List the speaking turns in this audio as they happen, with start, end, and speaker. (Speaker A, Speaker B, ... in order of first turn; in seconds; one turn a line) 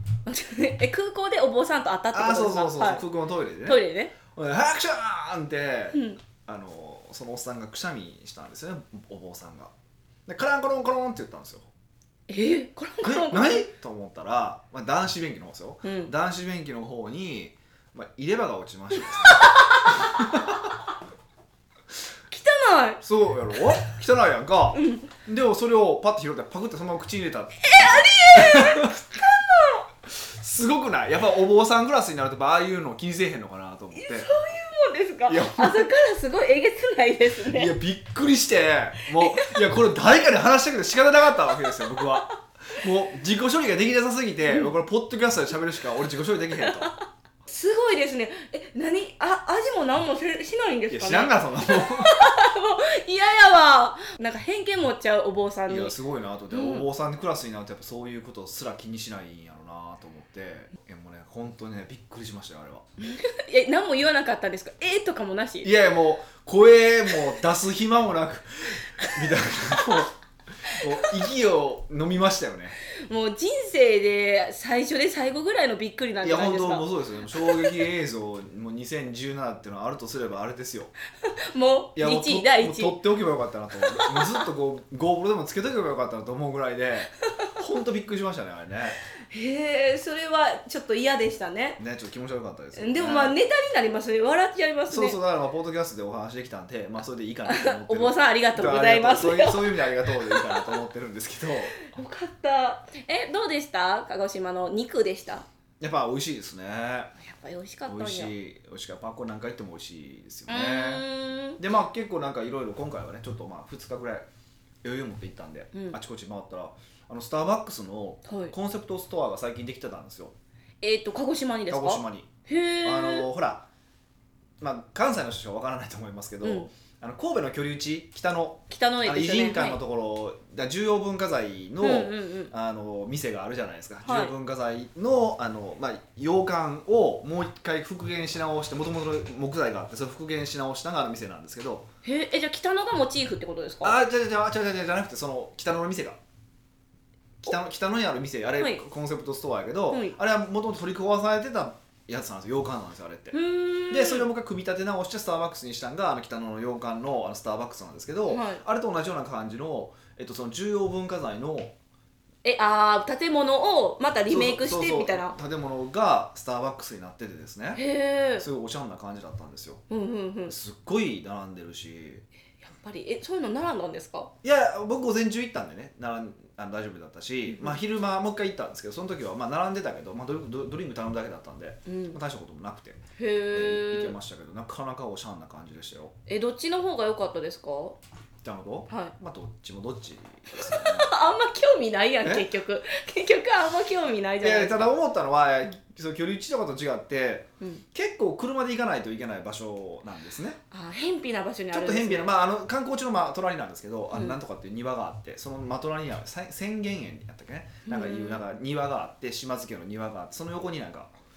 Speaker A: 0.3-3.0
Speaker B: 2.1-9.7
Speaker A: 3.7-4.1
Speaker A: 5.9-6.2
Speaker B: 10.3-11.7
Speaker A: 12.3-13.7
Speaker B: 13.0-20.7
Speaker A: 15.8-16.1
Speaker A: 19.2-20.1
Speaker A: 22.3-23.0
Speaker B: 23.0-27.7
Speaker A: 24.8-25.1
Speaker A: 27.6-29.9
Speaker B: 28.3-28.9
Speaker B: 30.1-34.3
Speaker A: 34.0-37.7
Speaker B: 35.3-35.9
Speaker B: 37.5-47.0
Speaker A: 39.2-39.6
Speaker A: 46.6-55.9
Speaker B: 50.9-52.2
Speaker B: 55.7-62.9
Speaker A: 56.5-56.9
Speaker A: 63.0-65.7
Speaker B: 65.6-72.8
Speaker A: 73.1-76.8
Speaker B: 76.2-80.9
Speaker A: 77.4-77.8
Speaker A: 81.5-83.0
Speaker B: 82.0-89.0
Speaker A: 83.9-84.3
Speaker A: 89.3-91.8
Speaker B: 91.8-93.4
Speaker A: 92.8-95.2
Speaker B: 94.9-101.8
Speaker A: 97.5-100.8
Speaker A: 101.8-105.5
Speaker B: 105.8-107.1
Speaker A: 107.2-108.3
Speaker B: 107.9-111.0
Speaker A: 110.5-111.6
Speaker B: 111.6-114.3
Speaker B: 114.8-120.3
Speaker A: 118.3-118.5
Speaker A: 120.8-123.3
Speaker B: 121.7-122.3
Speaker B: 122.8-123.7
Speaker B: 124.6-141.9
Speaker A: 126.4-126.7
Speaker A: 128.7-129.8
Speaker A: 131.8-132.5
Speaker A: 134.1-134.3
Speaker A: 142.0-144.0
Speaker B: 143.8-146.2
Speaker B: 147.4-153.4
Speaker A: 149.9-150.2
Speaker A: 153.3-154.3
Speaker B: 153.9-161.7
Speaker A: 158.3-158.6
Speaker A: 162.4-165.3
Speaker B: 164.3-167.8
Speaker A: 167.8-168.5
Speaker B: 168.4-169.8
Speaker A: 169.9-170.6
Speaker B: 170.5-172.2
Speaker A: 172.6-174.3
Speaker B: 174.4-183.0
Speaker A: 177.5-177.8
Speaker A: 181.9-182.2
Speaker A: 183.2-184.2
Speaker B: 183.5-186.1
Speaker A: 186.3-188.0
Speaker B: 188.4-191.1
Speaker A: 190.6-194.9
Speaker B: 192.2-192.5
Speaker B: 194.4-200.6
Speaker A: 200.7-202.3
Speaker B: 201.7-211.1
Speaker A: 204.1-204.4
Speaker A: 207.9-208.4